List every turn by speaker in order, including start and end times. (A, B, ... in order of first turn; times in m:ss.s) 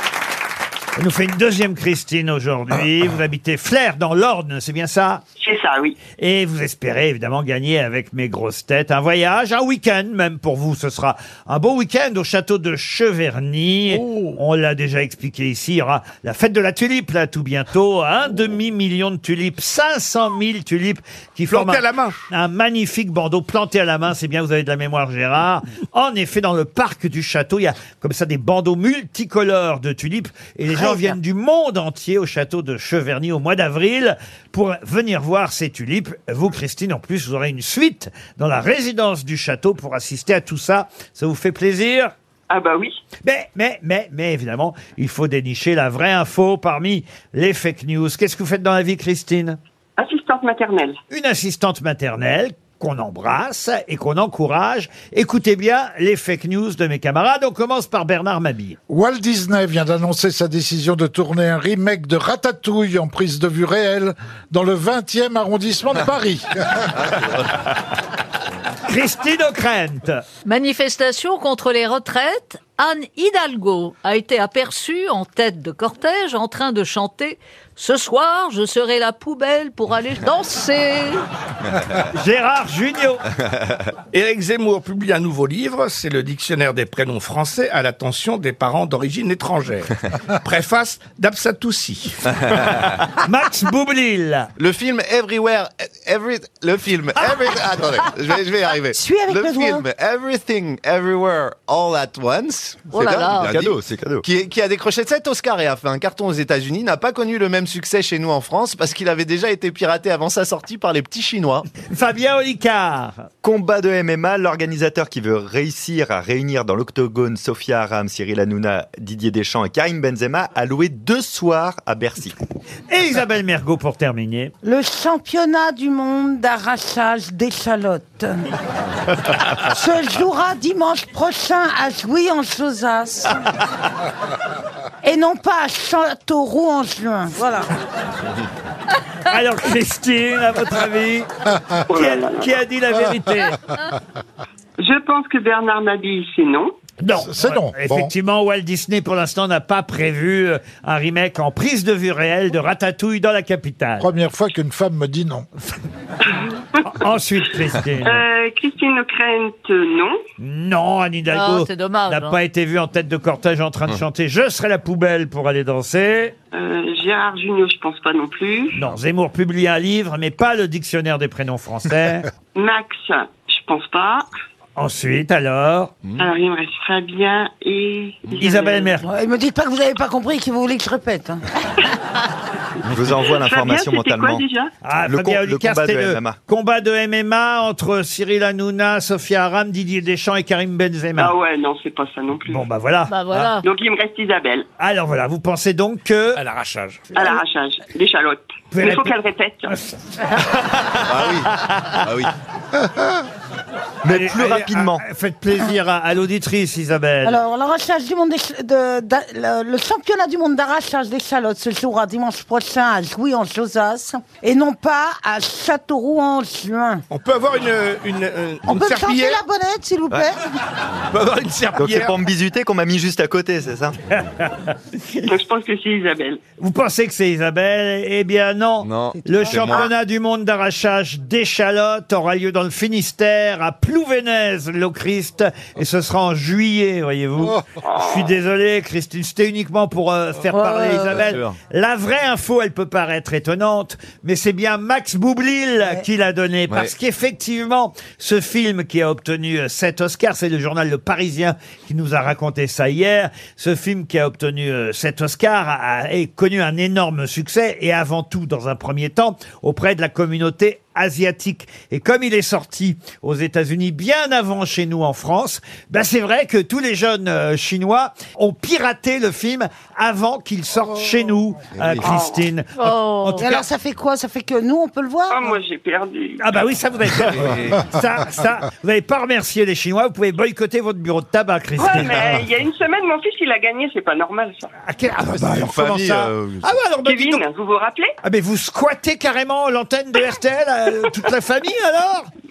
0:01.0-0:05.2 A
0:05.4-0:06.0 B
0:06.2-0:42.1 A
0:13.9-0:14.4 C
0:21.5-0:22.2 C
0:42.5-0:43.0 B
0:43.2-0:49.6 A
0:50.0-0:51.0 B
0:51.1-0:58.8 A
0:58.9-1:06.8 D
1:08.8-1:10.2 A
1:10.4-1:21.2 E
1:22.1-1:23.2 A
1:24.1-1:32.6 C
1:33.2-1:34.5 A
1:34.6-1:51.6 F
1:38.9-1:39.9 G
1:42.9-1:43.5 E
1:43.5-1:44.2 H
1:51.9-1:53.3 A
1:53.4-2:02.4 H
2:02.9-2:04.5 A
2:04.6-2:08.4 G
2:09.7-2:13.5 G
2:15.0-2:17.7 G
2:19.2-2:23.7 A
2:21.9-2:22.5 B
2:24.8-2:26.7 B
2:27.0-2:34.1 A
2:27.2-2:28.1 D
2:34.0-2:35.5 D
2:36.8-2:38.2 A
2:38.0-2:40.2 B
2:40.4-2:46.3 A
2:41.3-2:42.4 E
2:46.5-2:48.8 B
2:48.7-2:52.3 A
2:52.6-2:54.3 B
2:54.8-2:55.9 A
2:56.2-2:59.0 B
2:58.4-2:59.1 A
2:59.1-3:01.4 G
3:02.9-3:04.5 H
3:03.3-3:04.7 B
3:04.8-3:11.3 A
3:05.0-3:06.4 H
3:11.2-3:12.7 B
3:12.5-3:13.6 A
3:13.1-3:13.6 E
3:13.6-3:14.7 B
3:14.8-3:16.4 A
3:16.4-3:17.2 C
3:17.1-3:19.8 B
3:18.7-3:19.1 A
3:19.7-3:22.1 A
3:21.1-3:21.5 F
3:22.0-3:22.3 F
3:24.0-3:25.0 H
3:24.1-3:27.4 A
3:27.2-3:37.0 G
3:37.1-3:39.5 C
3:38.7-3:40.4 G
3:41.1-3:42.2 C
3:41.7-3:44.0 H
3:45.3-3:46.4 B
3:46.6-4:33.6 A
3:48.8-3:49.9 F
3:57.8-3:58.3 B
4:00.5-4:01.2 G
4:01.1-4:01.6 F
4:31.8-4:32.1 F
4:32.0-4:32.4 B
4:32.8-4:33.5 E
4:33.4-4:35.6 G
4:35.3-4:36.4 B
4:36.4-4:42.3 A
4:37.4-4:37.8 F
4:41.8-4:44.7 B
4:44.8-4:47.4 A
4:45.4-4:46.7 F
4:47.0-4:48.1 B
4:48.2-4:52.3 A